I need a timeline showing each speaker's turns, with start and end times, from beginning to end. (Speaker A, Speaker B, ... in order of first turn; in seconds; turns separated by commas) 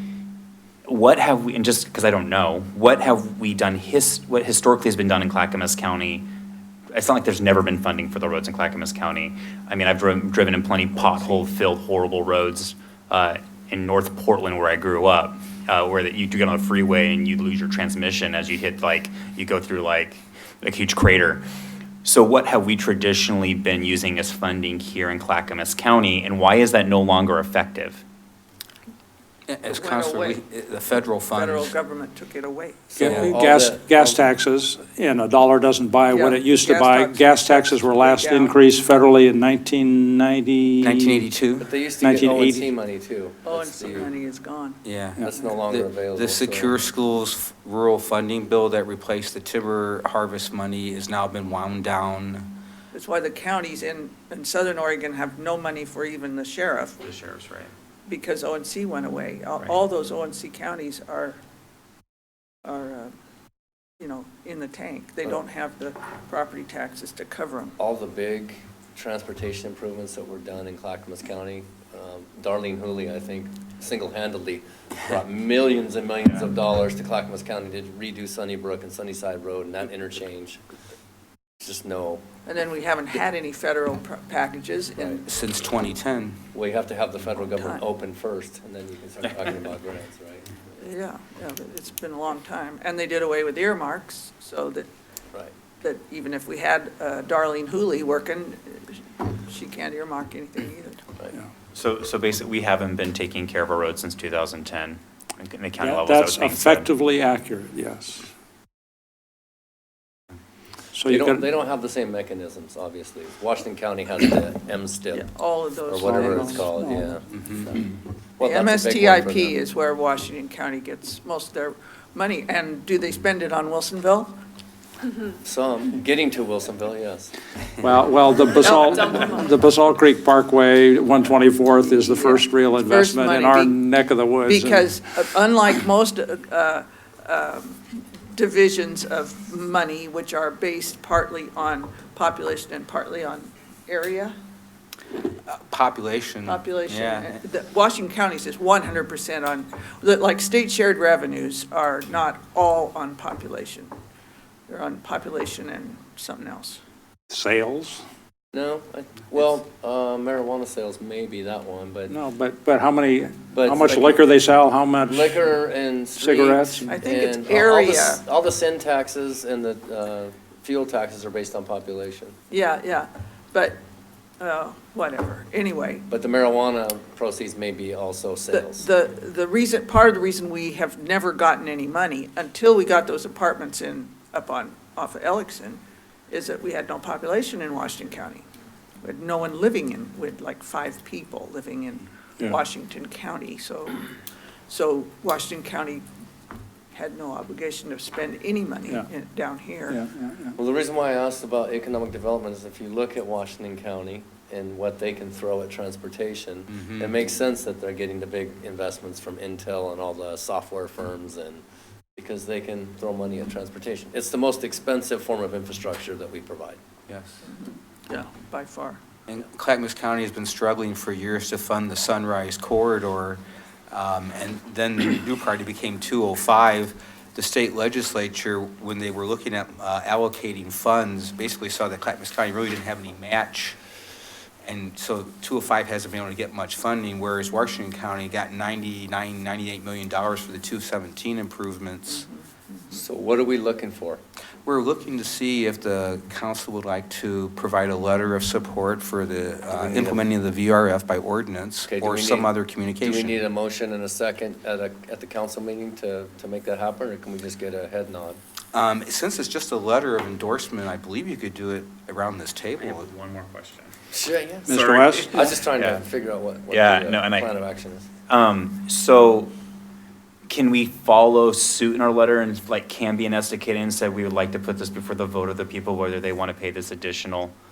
Speaker A: 0.9-6.3, Speaker A: 6.9-21.4, Speaker A: 22.0-28.0, Speaker B: 29.5-31.7, Speaker C: 29.7-30.4, Speaker C: 31.1-33.0, Speaker D: 32.9-34.2, Speaker E: 33.0-41.2, Speaker B: 33.0-33.3, Speaker C: 36.1-38.5, Speaker B: 40.8-41.6, Speaker D: 41.6-44.1, Speaker E: 42.0-42.7, Speaker C: 43.5-44.8, Speaker B: 44.8-52.5, Speaker D: 45.2-46.8, Speaker C: 52.9-57.0, Speaker A: 57.0-57.7, Speaker C: 58.1-61.4, Speaker C: 62.6-63.1, Speaker C: 64.0-67.8, Speaker D: 67.8-80.6, Speaker D: 81.6-82.2, Speaker C: 82.5-85.2, Speaker B: 85.2-86.4, Speaker D: 86.5-90.6, Speaker C: 87.5-87.8, Speaker C: 90.8-94.9, Speaker C: 95.8-101.1, Speaker A: 101.7-106.9, Speaker E: 105.8-108.3, Speaker E: 110.9-111.5, Speaker D: 111.0-115.3, Speaker C: 115.1-116.7, Speaker D: 115.8-117.8, Speaker E: 116.0-117.2, Speaker B: 117.3-117.7, Speaker D: 118.4-119.6, Speaker C: 118.4-124.3, Speaker D: 125.4-127.3, Speaker E: 127.8-134.9, Speaker C: 128.6-129.4, Speaker C: 131.9-133.8, Speaker C: 134.4-144.3, Speaker B: 145.4-147.4, Speaker C: 146.5-153.9, Speaker C: 154.7-156.8, Speaker E: 157.3-158.0, Speaker D: 158.5-162.1, Speaker E: 162.1-165.4, Speaker D: 163.5-164.3, Speaker D: 165.1-172.3, Speaker E: 166.2-166.9, Speaker C: 166.9-168.2, Speaker C: 172.5-173.8, Speaker C: 174.4-176.1, Speaker D: 176.1-178.9, Speaker C: 178.5-188.4, Speaker C: 189.0-194.0, Speaker C: 194.7-196.0, Speaker C: 196.9-200.0, Speaker E: 199.9-200.6, Speaker D: 200.6-211.6, Speaker B: 206.7-207.1, Speaker D: 212.2-216.8, Speaker B: 217.1-217.4, Speaker C: 217.5-219.0, Speaker B: 219.3-233.8, Speaker B: 234.6-242.3, Speaker C: 242.1-243.0, Speaker D: 242.9-244.2, Speaker B: 244.6-253.4, Speaker D: 249.7-250.2, Speaker D: 251.8-258.4, Speaker B: 258.7-263.1, Speaker A: 262.8-263.9, Speaker D: 264.1-264.7, Speaker E: 264.7-265.5, Speaker A: 264.7-266.0, Speaker D: 265.3-268.1, Speaker A: 266.7-267.5, Speaker A: 268.3-269.5, Speaker A: 270.5-277.5